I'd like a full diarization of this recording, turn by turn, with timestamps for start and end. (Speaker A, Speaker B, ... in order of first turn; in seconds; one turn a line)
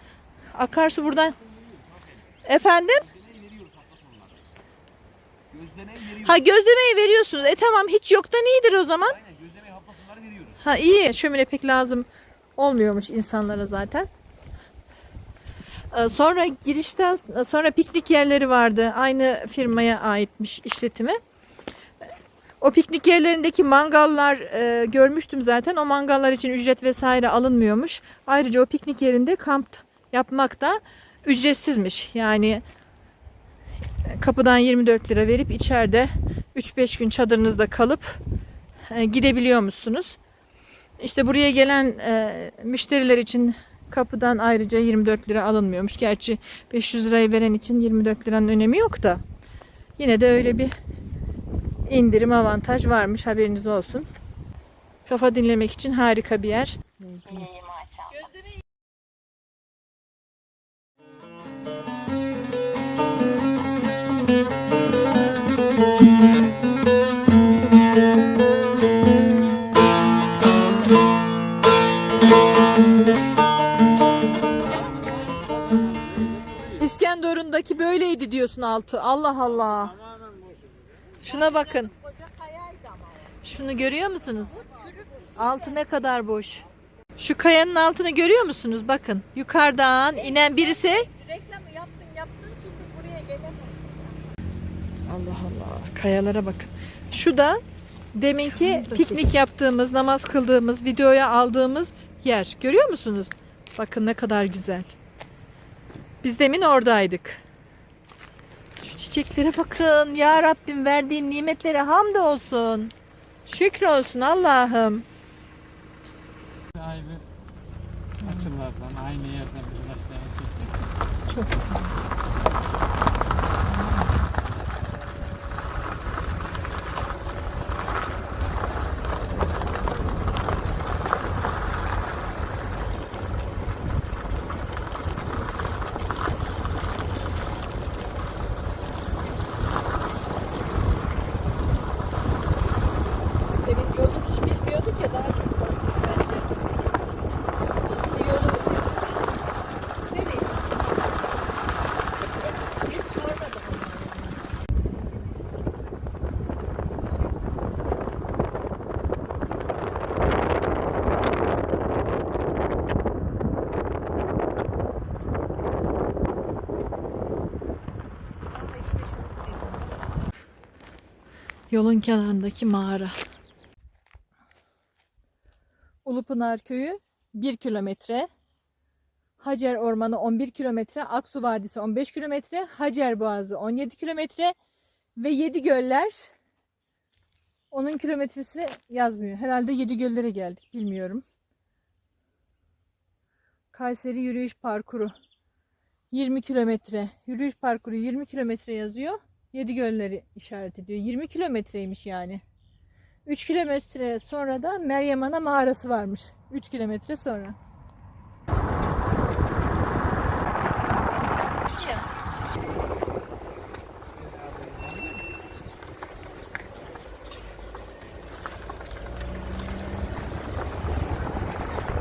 Speaker A: 0.6-1.4
Speaker B: 1.7-2.1
Speaker A: 2.5-3.1
Speaker B: 3.1-4.4
Speaker B: 5.5-6.2
Speaker A: 6.2-9.2
Speaker B: 9.2-10.6
Speaker A: 10.6-14.1
Speaker A: 15.9-21.2
Speaker A: 22.6-32.6
Speaker A: 34.0-38.2
Speaker A: 38.9-40.2
Speaker A: 41.0-49.2
Speaker A: 50.0-50.7
Speaker A: 51.9-54.1
Speaker A: 55.1-56.8
Speaker C: 57.0-58.1
Speaker D: 74.8-76.8
Speaker A: 76.8-80.0
Speaker D: 79.5-81.1
Speaker A: 81.2-81.9
Speaker C: 81.2-86.0
Speaker A: 83.4-84.7
Speaker A: 85.3-86.7
Speaker A: 87.2-91.1
Speaker C: 90.1-94.2
Speaker A: 95.1-97.6
Speaker A: 98.1-105.0
Speaker C: 98.3-99.2
Speaker A: 106.2-107.4
Speaker A: 108.8-112.9
Speaker A: 113.5-115.0
Speaker D: 116.8-117.2
Speaker D: 118.2-120.8
Speaker A: 118.2-118.5
Speaker A: 121.3-121.9
Speaker A: 123.7-124.0
Speaker A: 143.6-146.5
Speaker A: 148.1-148.9
Speaker A: 150.1-150.4
Speaker A: 152.2-154.4
Speaker C: 168.6-169.8
Speaker A: 171.7-173.2
Speaker A: 176.1-178.3
Speaker A: 179.4-184.6
Speaker A: 185.2-186.3
Speaker A: 187.7-191.2
Speaker A: 193.7-195.1
Speaker A: 196.1-202.4
Speaker A: 203.3-207.6
Speaker A: 211.1-212.1
Speaker D: 214.2-216.3